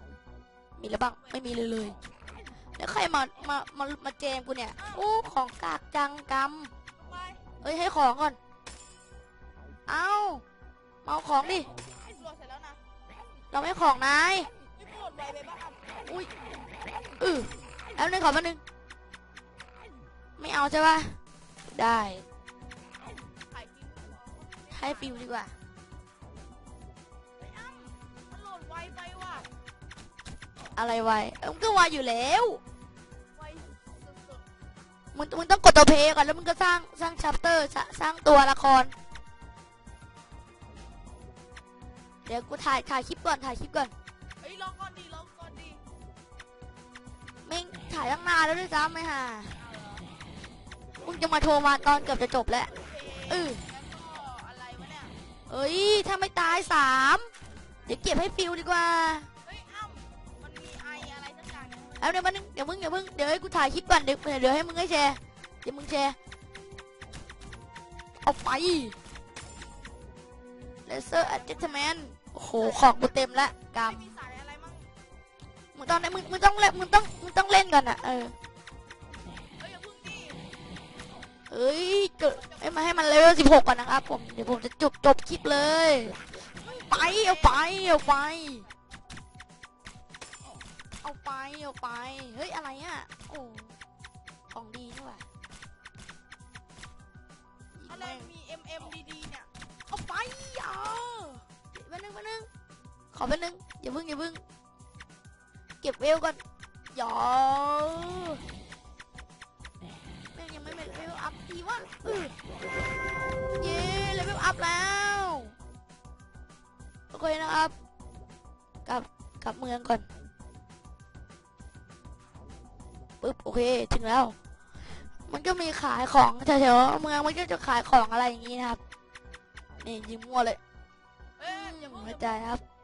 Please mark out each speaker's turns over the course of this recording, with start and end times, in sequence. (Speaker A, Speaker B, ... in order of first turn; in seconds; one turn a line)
Speaker A: 0.8-2.0
Speaker A: 2.8-6.7
Speaker B: 4.8-5.0
Speaker B: 7.0-7.5
Speaker A: 7.6-8.4
Speaker A: 9.9-10.4
Speaker A: 11.0-11.7
Speaker B: 12.1-12.8
Speaker A: 13.5-14.5
Speaker B: 14.8-15.8
Speaker A: 16.1-16.3
Speaker A: 17.2-18.6
Speaker A: 20.4-22.2
Speaker B: 23.5-25.3
Speaker A: 24.7-25.5
Speaker B: 27.4-29.5
Speaker A: 30.8-32.6
Speaker B: 33.3-34.5
Speaker A: 35.1-38.9
Speaker A: 42.2-43.9
Speaker B: 44.4-45.8
Speaker A: 47.4-49.5
Speaker B: 49.5-50.1
Speaker A: 51.0-52.7
Speaker B: 52.7-55.1
Speaker A: 53.3-53.6
Speaker A: 55.5-57.3
Speaker B: 56.4-56.7
Speaker A: 57.9-59.3
Speaker B: 59.4-62.1
Speaker A: 62.0-66.2
Speaker A: 68.2-69.0
Speaker A: 70.8-74.1
Speaker B: 71.1-71.9
Speaker B: 72.5-73.0
Speaker B: 73.7-74.9
Speaker A: 75.7-78.3
Speaker B: 79.6-80.4
Speaker A: 81.5-88.7
Speaker B: 82.2-83.1
Speaker B: 86.5-88.2
Speaker A: 91.0-93.8
Speaker A: 94.5-95.2
Speaker A: 97.7-98.3
Speaker B: 97.8-99.5
Speaker A: 99.9-102.5
Speaker A: 103.1-104.4
Speaker A: 105.8-108.4
Speaker A: 110.3-112.3
Speaker A: 113.5-115.5
Speaker A: 117.1-117.7
Speaker A: 118.8-120.0
Speaker A: 123.2-124.3
Speaker A: 125.1-128.8
Speaker A: 129.8-130.6
Speaker B: 131.4-132.5
Speaker A: 131.4-132.6